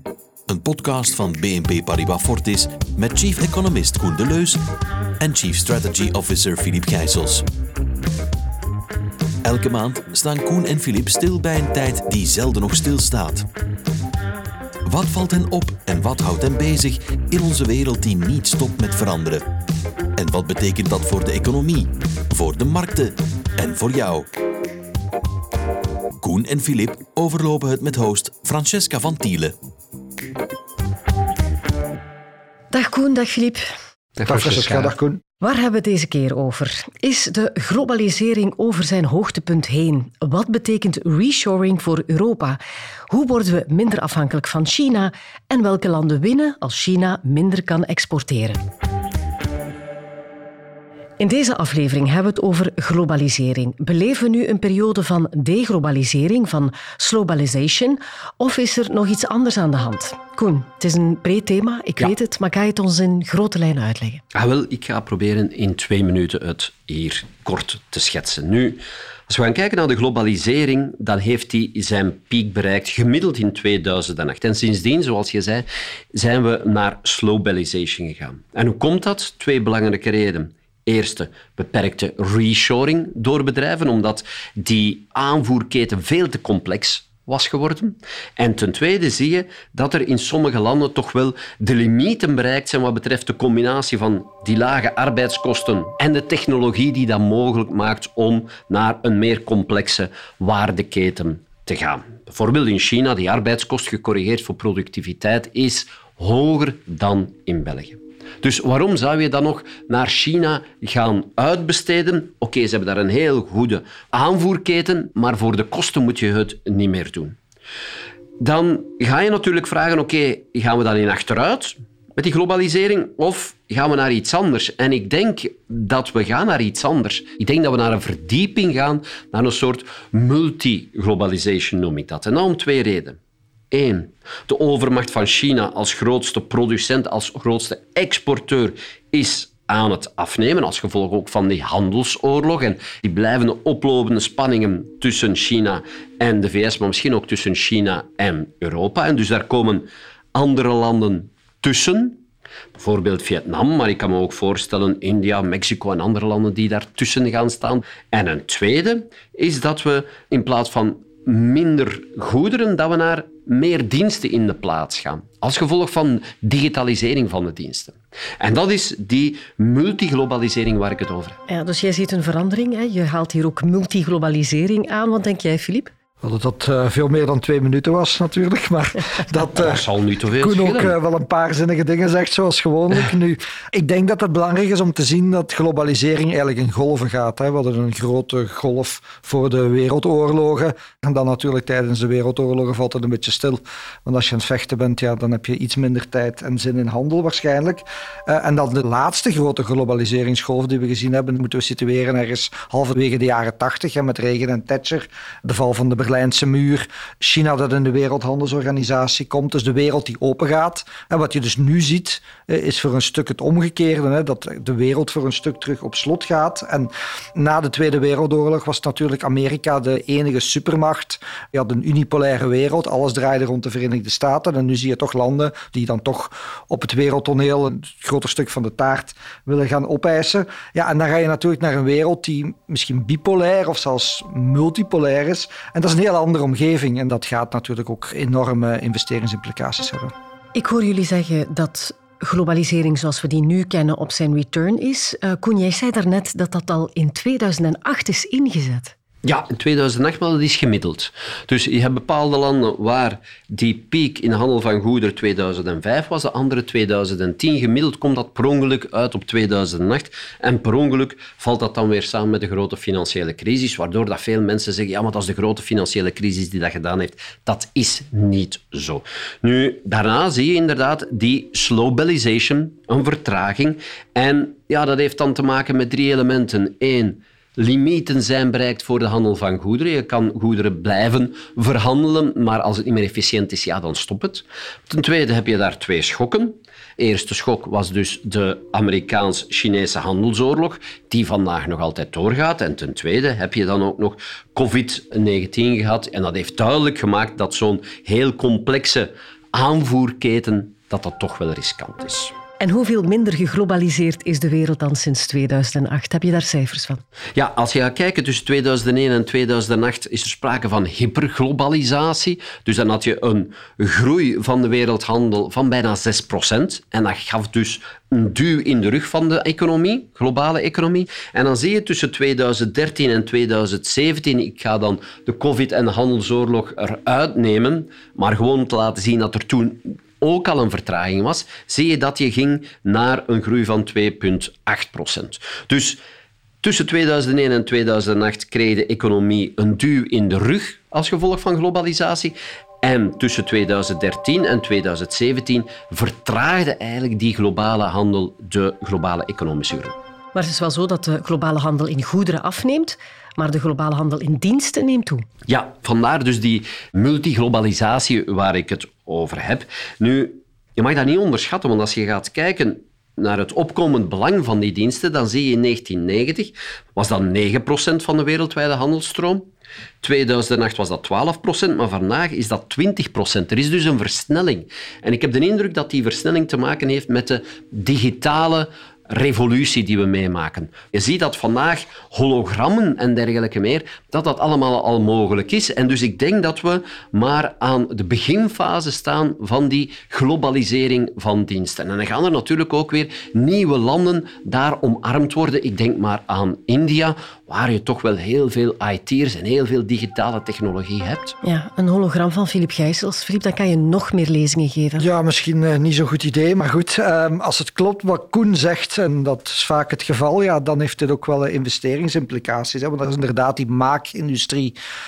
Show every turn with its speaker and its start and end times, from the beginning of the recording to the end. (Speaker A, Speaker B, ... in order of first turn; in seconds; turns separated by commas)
Speaker A: 0.5-4.6, Speaker A: 5.2-7.4, Speaker A: 9.4-13.4, Speaker A: 14.8-19.4, Speaker A: 20.2-24.2, Speaker A: 26.2-29.5, Speaker B: 32.7-33.6, Speaker C: 34.2-34.9, Speaker D: 34.2-35.2, Speaker B: 35.4-48.6, Speaker B: 51.2-64.2, Speaker C: 64.3-117.4, Speaker C: 118.4-133.2, Speaker C: 133.7-152.2, Speaker C: 152.7-171.4, Speaker B: 171.5-175.9, Speaker D: 176.2-179.8, Speaker C: 179.6-181.0, Speaker D: 180.4-240.1, Speaker B: 240.5-248.9, Speaker C: 249.2-302.3, Speaker B: 302.6-307.0, Speaker C: 307.3-336.0, Speaker C: 336.6-350.0, Speaker B: 350.3-355.2, Speaker C: 355.5-369.4, Speaker C: 370.0-401.4, Speaker B: 401.4-405.0, Speaker D: 405.0-414.8